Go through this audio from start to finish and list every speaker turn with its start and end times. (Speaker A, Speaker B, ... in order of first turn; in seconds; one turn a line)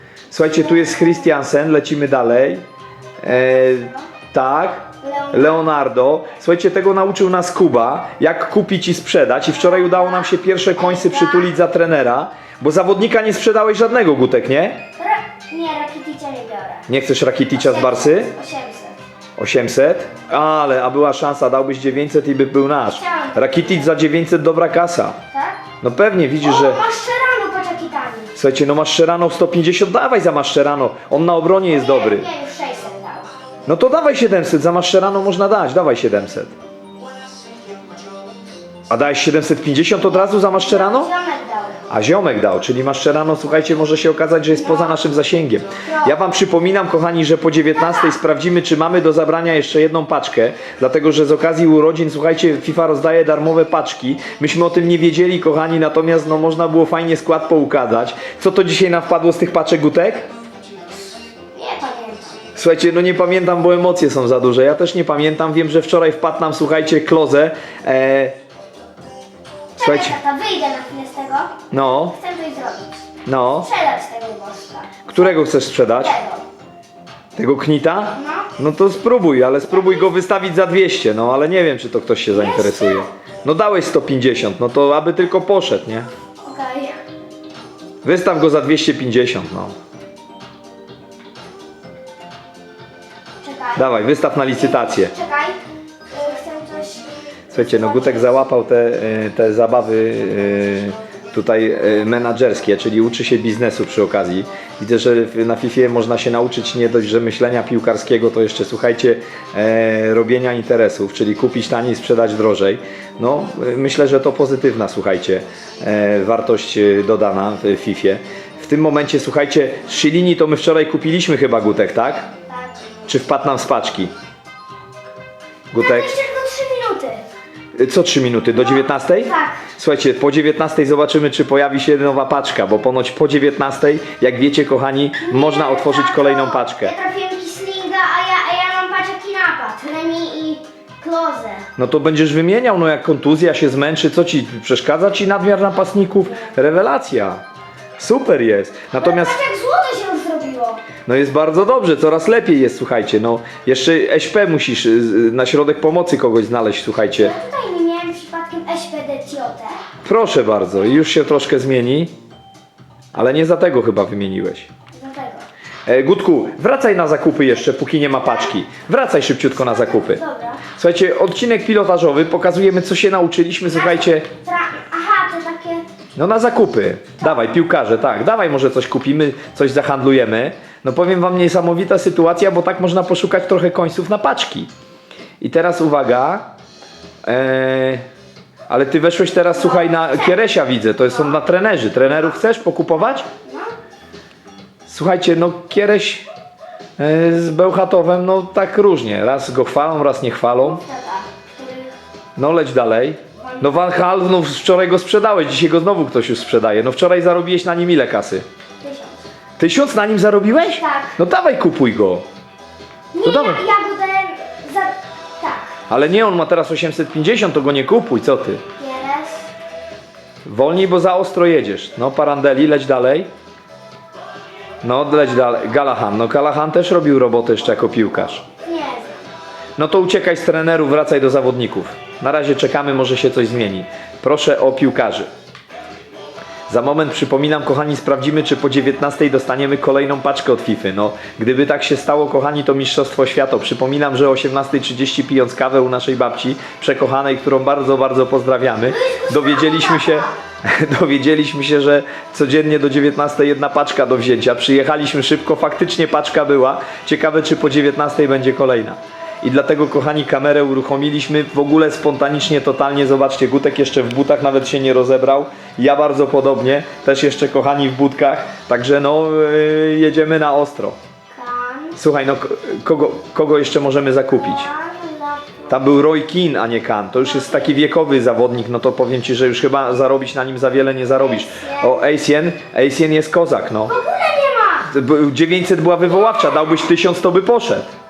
Speaker A: 0.3-2.6
Speaker B: 0.4-1.3
Speaker A: 3.2-14.8
Speaker B: 3.2-4.1
Speaker B: 5.0-5.6
Speaker B: 9.4-11.5
Speaker B: 15.0-16.9
Speaker A: 16.9-18.3
Speaker B: 17.5-19.0
Speaker A: 19.4-25.2
Speaker B: 22.8-23.9
Speaker B: 25.3-25.6
Speaker A: 25.8-26.8
Speaker B: 26.4-28.4
Speaker A: 28.4-32.3
Speaker B: 31.7-33.3
Speaker A: 33.7-36.5
Speaker A: 38.9-41.1
Speaker B: 40.1-41.9
Speaker A: 41.9-60.3
Speaker B: 44.5-45.0
Speaker B: 45.8-46.2
Speaker B: 47.8-48.1
Speaker B: 61.5-62.4
Speaker A: 62.5-68.4
Speaker B: 69.8-76.4
Speaker A: 69.8-70.2
Speaker A: 71.7-72.2
Speaker A: 73.3-73.7
Speaker A: 75.1-76.2
Speaker A: 77.4-86.1
Speaker B: 78.1-78.5
Speaker B: 79.7-80.1
Speaker B: 82.3-83.1
Speaker B: 86.4-87.0
Speaker A: 88.0-89.8
Speaker B: 93.4-95.6
Speaker A: 93.8-95.1
Speaker B: 96.1-98.5
Speaker A: 97.5-122.3
Speaker B: 122.5-122.9
Speaker A: 123.1-124.1
Speaker A: 125.7-126.2
Speaker B: 125.8-127.2
Speaker A: 127.8-136.9
Speaker B: 128.5-129.7
Speaker B: 135.2-141.7
Speaker A: 141.8-147.4
Speaker A: 148.0-149.4
Speaker B: 149.0-150.8
Speaker A: 151.1-157.4
Speaker B: 157.1-159.8
Speaker A: 160.1-162.1
Speaker A: 163.1-164.7
Speaker B: 164.9-165.5
Speaker A: 165.9-170.2
Speaker B: 168.1-168.5
Speaker B: 169.7-170.6
Speaker A: 170.7-174.3
Speaker B: 173.7-175.8
Speaker A: 176.2-184.7
Speaker A: 185.4-186.5
Speaker A: 187.3-188.1
Speaker A: 188.7-193.3
Speaker B: 189.5-190.4
Speaker B: 191.1-191.4
Speaker B: 193.2-193.7
Speaker A: 194.9-196.3
Speaker A: 197.0-200.8
Speaker B: 200.6-202.0
Speaker A: 202.4-208.4
Speaker B: 203.4-204.0
Speaker B: 208.8-209.3
Speaker A: 209.6-212.2
Speaker B: 210.8-211.2
Speaker B: 213.1-215.7
Speaker A: 213.2-213.6
Speaker A: 215.9-218.6
Speaker B: 218.8-219.5
Speaker A: 220.4-223.3
Speaker A: 224.8-228.4
Speaker B: 228.6-229.2
Speaker A: 229.8-235.3
Speaker A: 236.7-271.0
Speaker B: 248.8-250.3
Speaker B: 271.3-272.0
Speaker A: 271.9-274.7
Speaker B: 274.3-275.8
Speaker A: 275.7-283.9
Speaker B: 277.2-277.8
Speaker B: 281.1-282.0
Speaker B: 283.9-284.9
Speaker A: 284.9-287.9